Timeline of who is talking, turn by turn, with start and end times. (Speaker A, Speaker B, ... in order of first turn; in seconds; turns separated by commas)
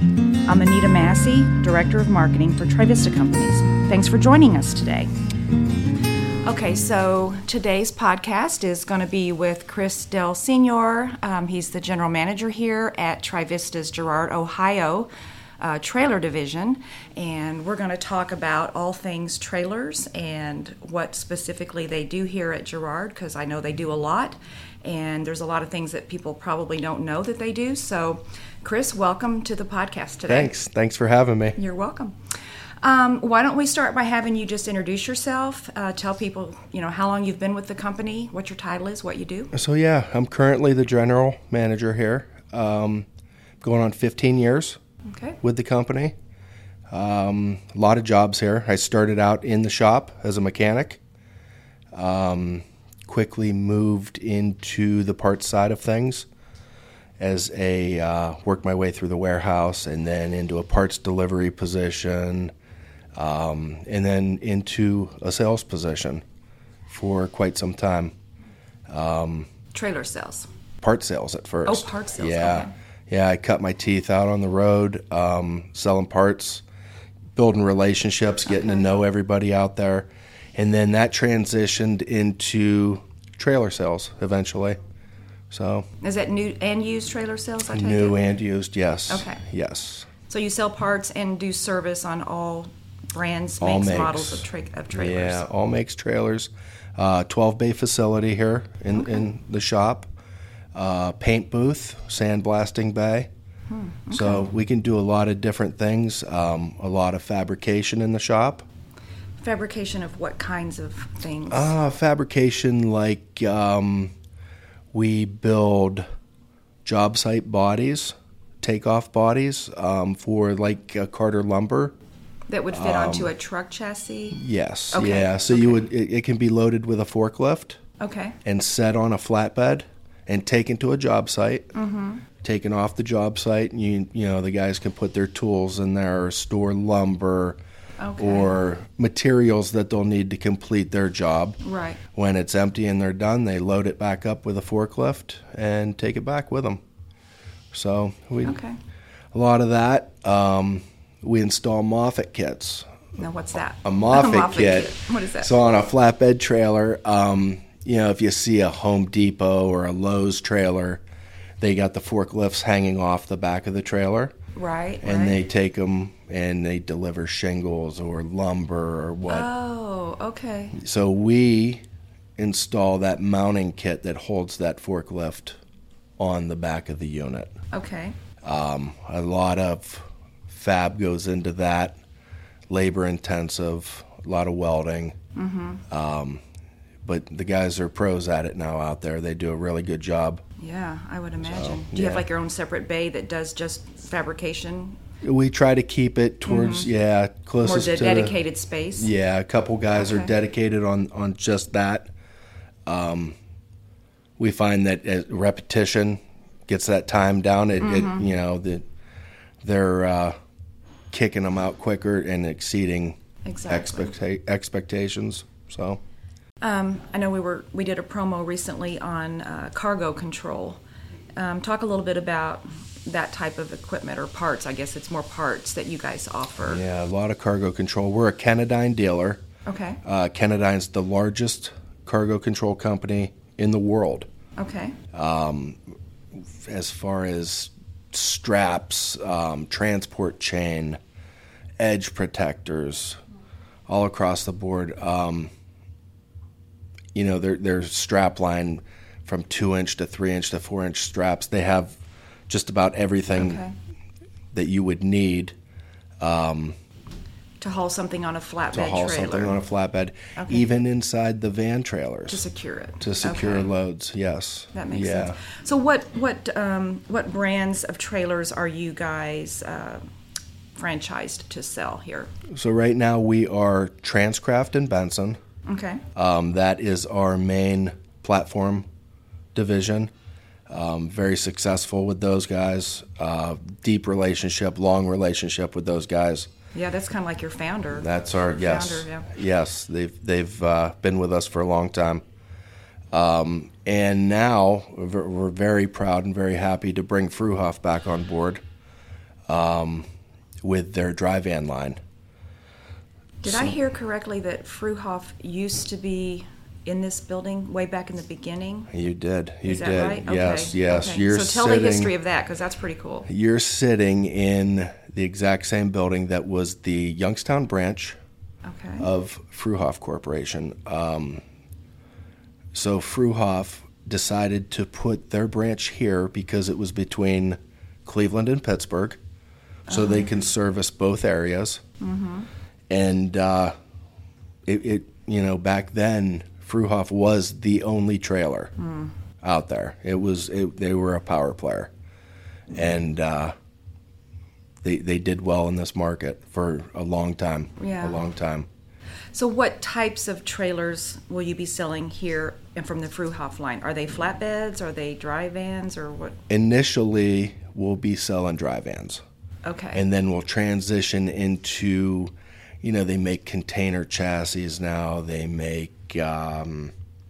Speaker A: 0.5-5.1, Speaker A: 6.5-15.1, Speaker A: 15.6-30.5, Speaker B: 30.3-31.6, Speaker A: 31.6-32.1, Speaker A: 32.8-39.5, Speaker B: 39.5-43.1, Speaker B: 43.6-44.8, Speaker A: 45.1-45.4, Speaker B: 45.4-46.1, Speaker B: 46.9-51.0, Speaker B: 51.9-56.3, Speaker B: 57.2-62.5, Speaker B: 63.2-66.2, Speaker B: 66.9-68.1, Speaker B: 68.9-69.5, Speaker A: 69.7-70.5, Speaker B: 70.8-76.6, Speaker A: 71.7-72.7, Speaker B: 77.4-84.8, Speaker A: 78.5-78.8, Speaker B: 85.5-85.9, Speaker A: 86.0-88.2, Speaker B: 87.7-90.1, Speaker A: 89.1-89.4, Speaker A: 90.3-95.4, Speaker B: 93.6-100.1, Speaker A: 98.9-99.2, Speaker B: 100.7-103.3, Speaker A: 103.7-104.5, Speaker B: 104.1-108.7, Speaker A: 109.4-111.8, Speaker B: 111.5-114.1, Speaker B: 114.9-116.0, Speaker B: 116.8-122.0, Speaker A: 122.5-125.8, Speaker B: 122.7-123.3, Speaker B: 124.3-127.8, Speaker A: 128.0-128.4, Speaker B: 128.4-131.7, Speaker A: 131.7-132.2, Speaker B: 132.4-137.6, Speaker A: 138.0-138.6, Speaker B: 138.2-141.6, Speaker A: 141.6-142.0, Speaker B: 142.1-146.8, Speaker B: 147.7-148.6, Speaker A: 148.4-148.8, Speaker B: 149.3-152.9, Speaker A: 153.2-155.5, Speaker B: 153.8-161.0, Speaker B: 161.6-164.3, Speaker A: 164.6-165.4, Speaker B: 165.0-169.5, Speaker A: 169.3-170.8, Speaker B: 170.8-171.8, Speaker B: 172.4-175.6, Speaker B: 176.2-177.5, Speaker A: 177.7-178.2, Speaker B: 178.4-182.0, Speaker B: 182.7-185.2, Speaker A: 185.4-185.8, Speaker B: 185.9-186.4, Speaker B: 187.0-190.4, Speaker A: 190.6-195.0, Speaker B: 191.4-192.2, Speaker B: 195.2-198.4, Speaker A: 196.5-196.9, Speaker A: 197.6-199.1, Speaker B: 199.0-202.1, Speaker A: 200.0-200.3, Speaker B: 202.9-203.4, Speaker B: 204.4-208.8, Speaker A: 207.8-208.3, Speaker B: 209.6-210.3, Speaker B: 211.1-216.0, Speaker A: 213.4-214.1, Speaker A: 216.6-220.8, Speaker A: 221.4-226.8, Speaker B: 226.6-229.4, Speaker A: 229.7-230.0, Speaker B: 230.0-234.3, Speaker A: 234.6-235.0, Speaker B: 235.1-235.8, Speaker B: 236.6-241.0, Speaker B: 241.8-243.2, Speaker B: 243.9-245.5, Speaker B: 247.2-252.0, Speaker B: 252.5-253.6, Speaker A: 253.4-253.7, Speaker B: 254.5-255.5, Speaker B: 256.2-256.8, Speaker A: 257.6-259.6, Speaker B: 258.7-262.4, Speaker A: 260.4-260.7, Speaker A: 262.3-263.7, Speaker B: 263.0-265.4, Speaker A: 264.7-270.0, Speaker A: 270.8-272.3, Speaker B: 272.5-275.4, Speaker A: 275.7-276.0, Speaker B: 276.2-278.9, Speaker B: 279.5-280.1, Speaker B: 280.7-286.5, Speaker A: 286.7-289.3, Speaker B: 287.9-292.2, Speaker B: 293.1-298.6, Speaker B: 299.5-300.1, Speaker B: 300.6-302.0, Speaker A: 303.4-308.9, Speaker B: 303.5-303.8, Speaker B: 308.9-312.1, Speaker A: 309.6-313.3, Speaker B: 313.3-318.2, Speaker A: 318.7-319.1, Speaker B: 319.0-321.4, Speaker B: 322.7-329.2, Speaker A: 329.9-330.3, Speaker B: 329.9-331.8, Speaker A: 332.0-332.5, Speaker B: 332.9-333.7, Speaker B: 334.7-338.7, Speaker A: 338.8-339.1, Speaker B: 339.4-341.9, Speaker B: 342.7-343.5, Speaker B: 344.8-348.7, Speaker A: 347.8-348.2, Speaker A: 349.3-356.4, Speaker B: 356.5-359.2, Speaker A: 359.6-360.0, Speaker B: 359.9-366.9